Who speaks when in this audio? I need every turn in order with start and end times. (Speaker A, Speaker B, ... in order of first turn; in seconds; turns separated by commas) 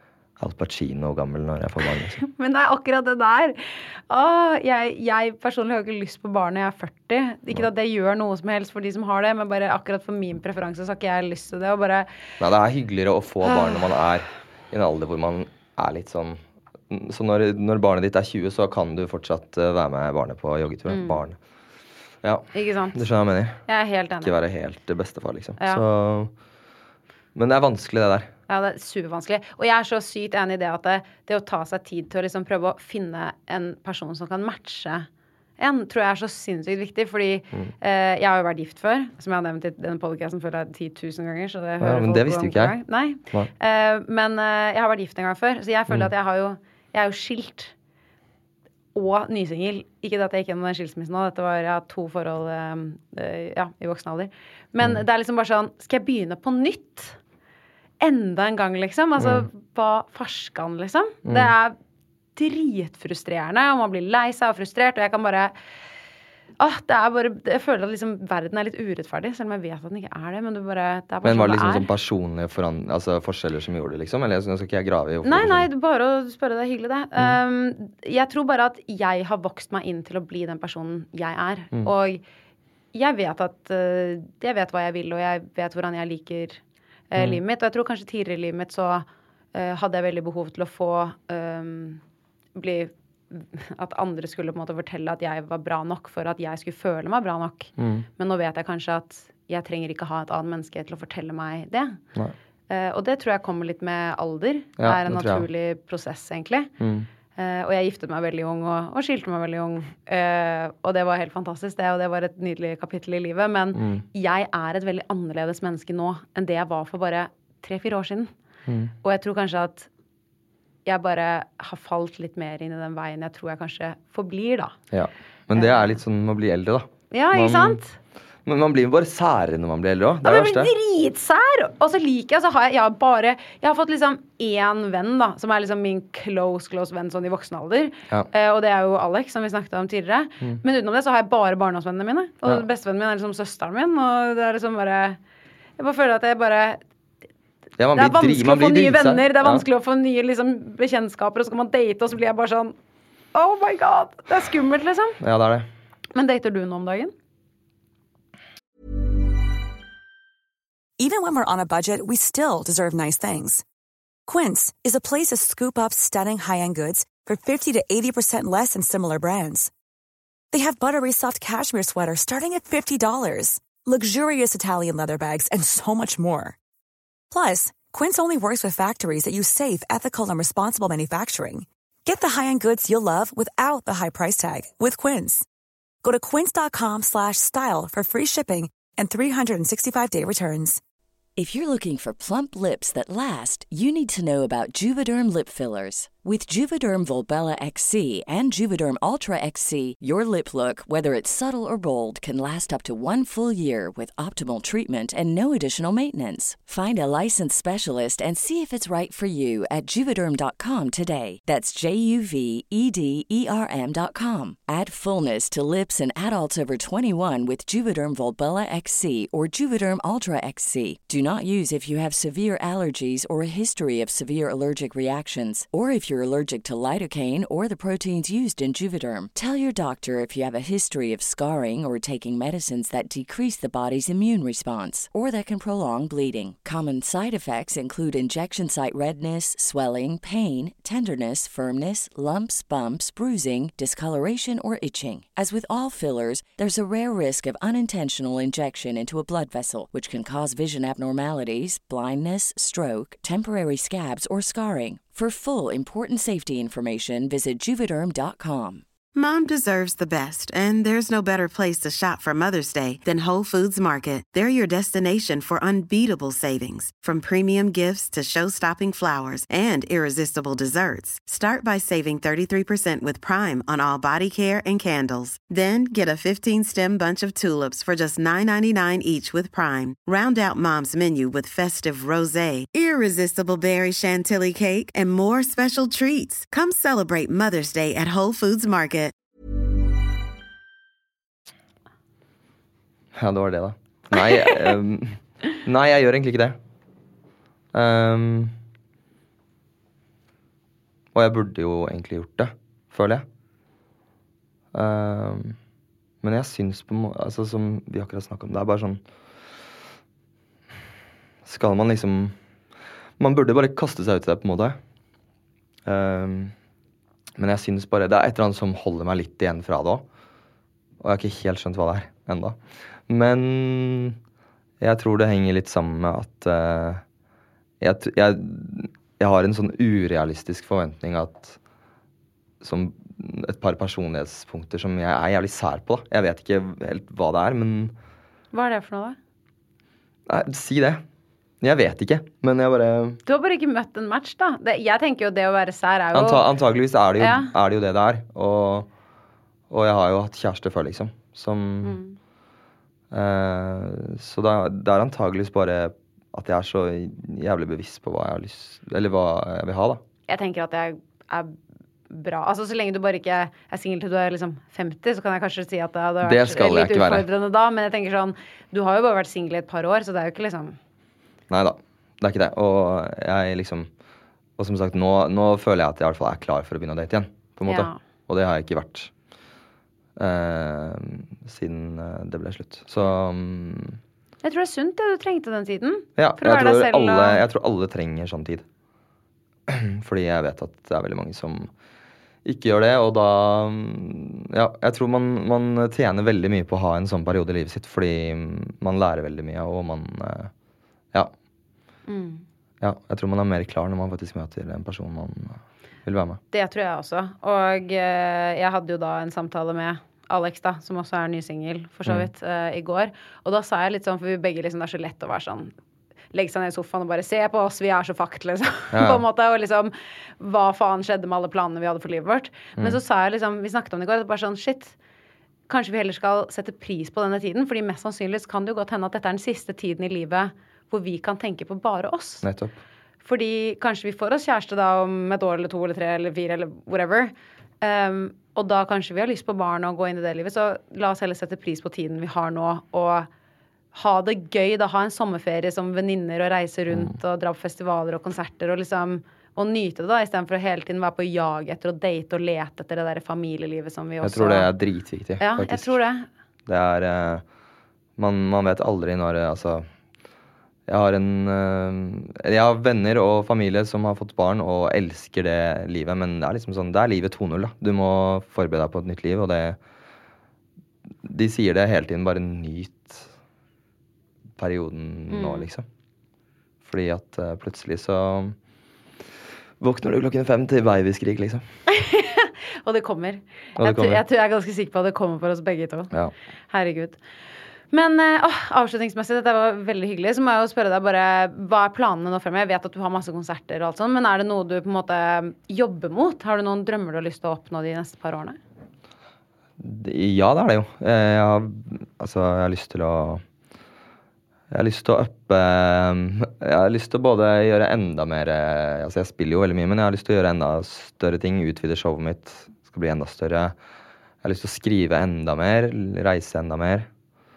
Speaker A: 0.4-2.2, Speaker B: 2.2-12.1, Speaker A: 12.4-21.4, Speaker B: 20.9-21.2, Speaker A: 22.2-23.6, Speaker B: 22.5-23.0, Speaker B: 23.6-24.3, Speaker A: 24.2-26.3, Speaker A: 27.3-28.3, Speaker B: 28.5-35.1, Speaker B: 35.6-47.7, Speaker A: 41.8-42.8, Speaker B: 48.9-57.2, Speaker B: 58.0-61.8, Speaker A: 59.2-59.5, Speaker A: 61.2-61.5, Speaker B: 62.4-65.5, Speaker B: 66.6-71.8, Speaker A: 71.2-75.7, Speaker B: 75.2-82.2, Speaker B: 82.9-92.0, Speaker B: 92.5-102.0, Speaker A: 97.8-98.1, Speaker B: 102.7-106.7, Speaker A: 104.8-105.5, Speaker A: 106.8-107.1, Speaker B: 107.3-118.3, Speaker A: 113.7-114.0, Speaker A: 118.7-118.9, Speaker B: 119.0-119.9, Speaker B: 120.8-124.8, Speaker A: 124.9-127.8, Speaker B: 125.5-126.0, Speaker B: 127.1-128.0, Speaker A: 128.4-130.7, Speaker B: 130.2-145.2, Speaker B: 145.8-146.8, Speaker A: 147.8-149.6, Speaker B: 147.9-152.7, Speaker B: 153.3-155.2, Speaker A: 155.2-155.7, Speaker B: 156.1-157.1, Speaker C: 161.0-163.6, Speaker C: 164.2-169.7, Speaker C: 170.5-176.6, Speaker C: 177.3-185.5, Speaker C: 186.0-190.8, Speaker D: 191.3-258.8, Speaker E: 259.1-289.1, Speaker A: 293.1-296.6, Speaker A: 297.7-298.5, Speaker A: 301.1-303.2, Speaker A: 304.7-305.6, Speaker A: 306.2-309.0, Speaker A: 311.4-312.4, Speaker A: 313.2-314.8, Speaker A: 315.9-316.5, Speaker A: 317.4-320.0, Speaker A: 321.0-324.2, Speaker A: 324.8-327.0, Speaker A: 327.8-331.6, Speaker A: 332.6-337.9, Speaker B: 338.5-339.2, Speaker A: 340.3-341.0, Speaker A: 341.6-343.2, Speaker B: 343.2-346.5, Speaker A: 346.1-348.9, Speaker B: 347.2-347.5, Speaker A: 349.7-352.0, Speaker B: 351.8-352.1, Speaker A: 353.1-360.0, Speaker B: 360.3-361.6, Speaker B: 362.1-370.8, Speaker A: 366.2-367.2, Speaker A: 371.5-373.9, Speaker A: 374.6-379.1, Speaker B: 377.6-378.0, Speaker A: 380.2-384.0, Speaker B: 384.4-387.4, Speaker A: 386.2-388.6, Speaker A: 389.7-391.7, Speaker A: 392.4-400.5, Speaker B: 402.1-402.4, Speaker A: 402.8-406.4, Speaker B: 406.5-415.7, Speaker B: 416.3-424.9, Speaker A: 418.9-419.2, Speaker B: 425.7-432.4, Speaker A: 432.4-432.8, Speaker B: 433.2-443.3, Speaker B: 443.9-454.7, Speaker A: 454.2-455.9, Speaker B: 455.4-456.3, Speaker A: 456.7-457.4, Speaker A: 458.2-459.9, Speaker A: 460.9-469.8, Speaker A: 471.2-473.3, Speaker A: 474.6-475.8, Speaker B: 475.3-475.7, Speaker A: 476.8-478.6, Speaker A: 479.8-481.6, Speaker B: 481.9-486.1, Speaker A: 483.8-484.2, Speaker B: 486.7-487.2, Speaker B: 487.9-498.6, Speaker A: 499.8-503.4, Speaker A: 504.7-513.8, Speaker A: 514.4-517.1